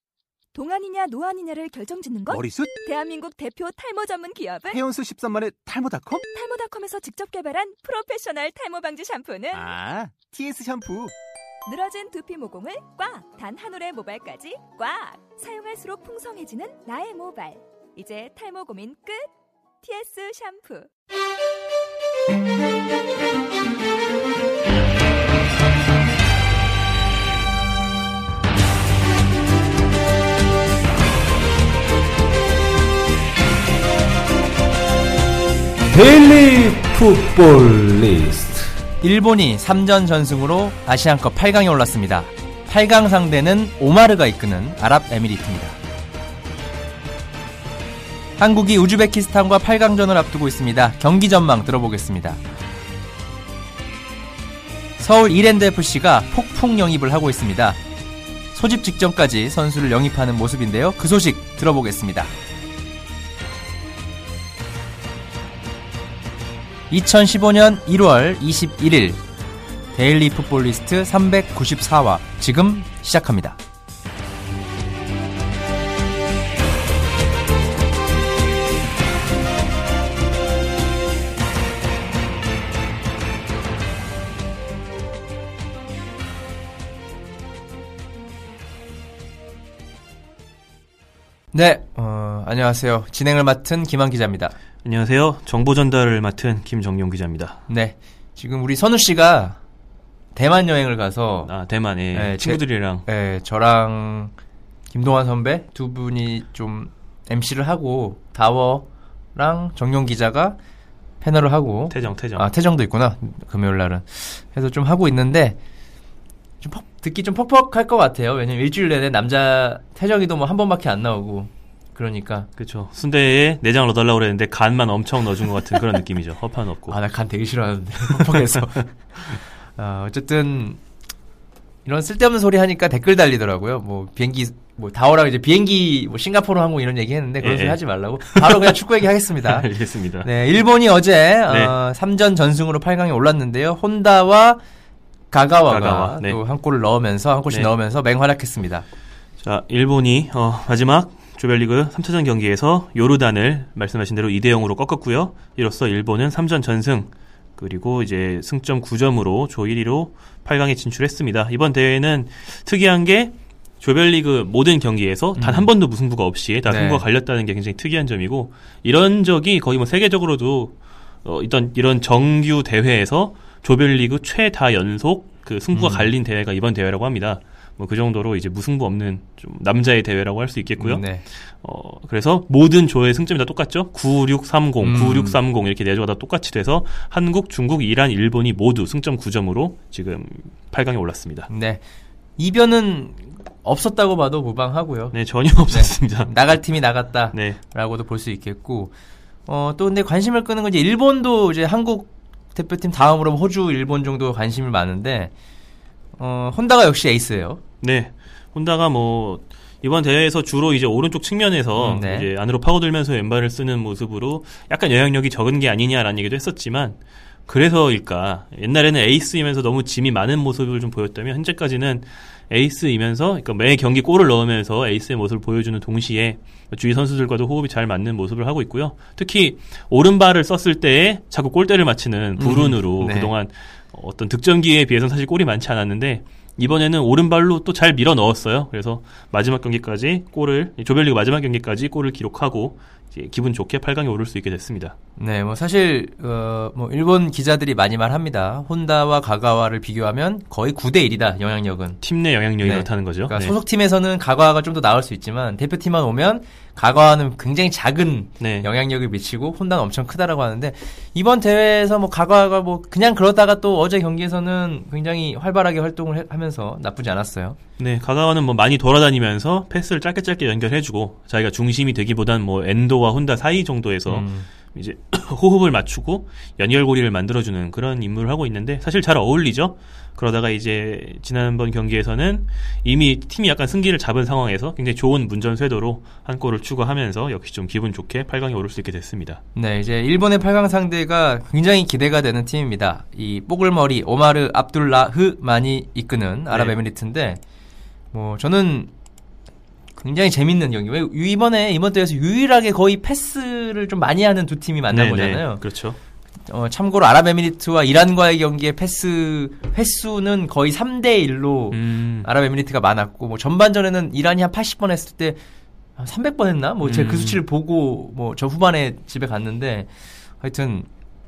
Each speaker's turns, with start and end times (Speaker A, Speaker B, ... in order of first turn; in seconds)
Speaker A: 0.5-4.8, 6.2-9.7, 11.7-19.3, 19.8-20.9
Speaker B: 2.3-2.7, 4.7-6.2, 9.5-11.1
Speaker C: 35.9-38.7
Speaker D: 39.0-45.8, 48.4-52.4, 55.0-57.8, 58.5-62.3, 66.9-69.2, 69.9-73.6, 91.5-94.5, 97.7-99.6, 100.3-101.5, 102.1-104.3, 104.9-110.6, 111.2-115.6, 116.6-122.5, 126.9-130.8, 131.8-139.7, 140.2-144.6, 145.3-148.8, 165.3-165.7, 166.7-167.0, 175.7-176.1, 180.8-181.2, 184.8-185.4, 191.5-191.8, 192.4-195.1, 195.7-198.9, 199.5-205.3, 206.2-207.6, 211.8-212.3, 232.4-233.3, 245.2-252.0, 252.6-267.6, 274.1-274.5, 289.5-297.4, 298.1-298.9, 300.0-305.6, 306.5-315.4, 316.0-320.9
Speaker E: 94.8-97.6, 101.4-103.0, 111.9-112.5, 122.6-127.0, 128.1-128.8, 137.4-138.8, 139.4-140.3, 141.5-141.7, 145.7-146.4, 149.4-191.5, 195.1-196.7, 197.3-197.6, 207.8-244.9, 252.0-253.6, 258.4-258.7, 267.8-289.4, 296.5-296.7, 304.9-306.0, 311.7-312.3, 316.8-317.4